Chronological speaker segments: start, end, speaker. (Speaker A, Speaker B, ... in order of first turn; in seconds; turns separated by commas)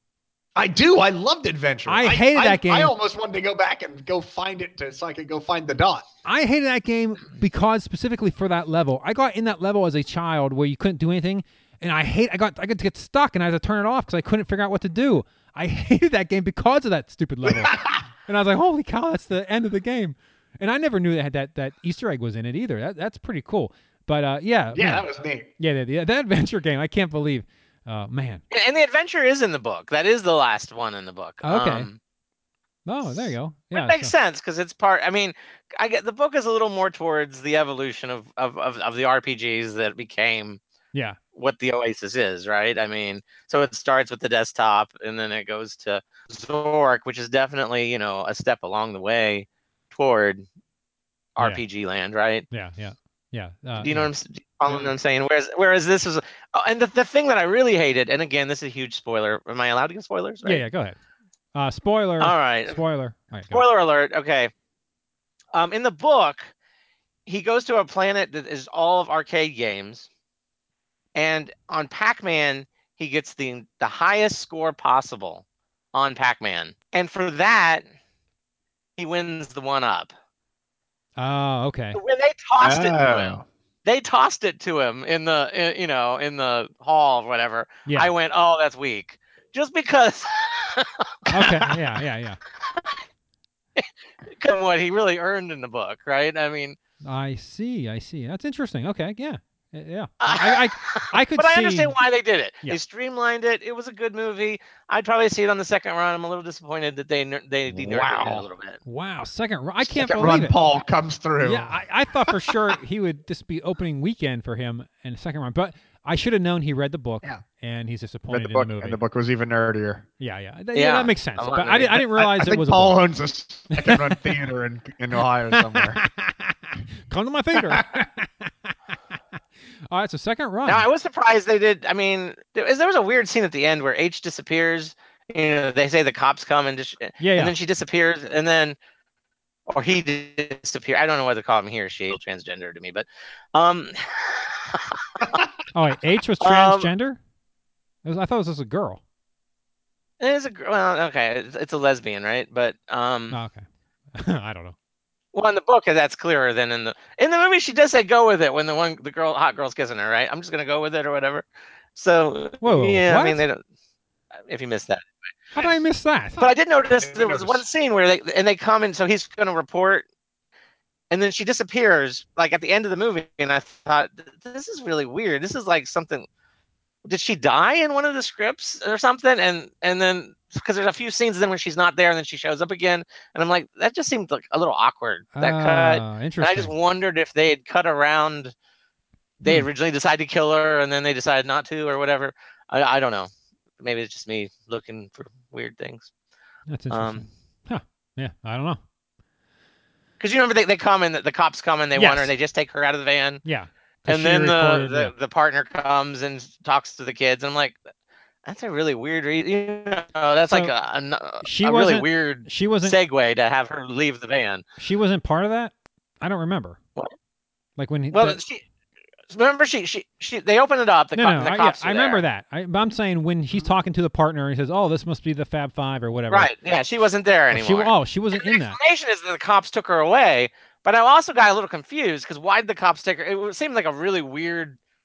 Speaker A: 0.6-6.0, Speaker B: 1.9-2.9, Speaker B: 6.2-25.1, Speaker A: 17.4-18.1, Speaker A: 24.7-25.5, Speaker B: 25.6-28.4, Speaker C: 28.5-32.0, Speaker B: 31.4-31.9, Speaker B: 32.9-34.1, Speaker C: 33.0-40.6, Speaker C: 41.3-50.4, Speaker C: 51.4-52.5, Speaker B: 52.5-54.1, Speaker C: 53.8-60.6, Speaker B: 60.4-61.0, Speaker B: 61.5-63.7, Speaker C: 62.2-62.8, Speaker C: 63.5-64.5, Speaker C: 65.5-66.5, Speaker C: 67.2-70.1, Speaker C: 71.1-77.8, Speaker C: 79.0-80.1, Speaker B: 81.2-82.0, Speaker C: 81.9-91.8, Speaker A: 82.6-83.4, Speaker B: 91.3-92.4, Speaker C: 92.7-93.0, Speaker C: 93.8-96.8, Speaker B: 97.0-101.9, Speaker C: 100.2-108.8, Speaker A: 107.7-108.5, Speaker B: 108.8-110.5, Speaker A: 109.8-111.8, Speaker B: 111.4-119.0, Speaker A: 118.3-120.0, Speaker B: 120.2-123.0, Speaker C: 120.7-122.0, Speaker A: 122.2-126.0, Speaker B: 123.7-124.3, Speaker B: 125.5-128.7, Speaker A: 127.5-127.8, Speaker B: 129.9-130.8, Speaker C: 130.7-138.8, Speaker B: 137.2-137.5, Speaker C: 139.7-145.0, Speaker B: 145.7-147.2, Speaker C: 146.4-146.9, Speaker B: 148.0-149.0, Speaker C: 150.2-153.3, Speaker B: 153.3-153.6, Speaker B: 154.1-154.7, Speaker C: 155.3-163.6, Speaker B: 162.6-163.4, Speaker C: 164.5-165.6, Speaker B: 165.5-166.4, Speaker C: 166.4-170.0, Speaker A: 167.0-167.6, Speaker C: 171.1-176.2, Speaker C: 177.1-188.5, Speaker B: 185.3-186.7, Speaker C: 189.4-193.3, Speaker C: 193.8-196.1, Speaker B: 196.7-198.8, Speaker C: 196.9-197.3, Speaker C: 200.2-203.4, Speaker B: 201.9-202.3, Speaker B: 203.4-205.1, Speaker C: 204.1-207.8, Speaker C: 208.4-214.6, Speaker B: 211.4-212.9, Speaker B: 214.8-216.8, Speaker B: 217.8-218.4, Speaker C: 218.1-218.6, Speaker C: 219.3-222.2, Speaker B: 221.1-226.5, Speaker C: 226.3-234.8, Speaker B: 227.5-228.8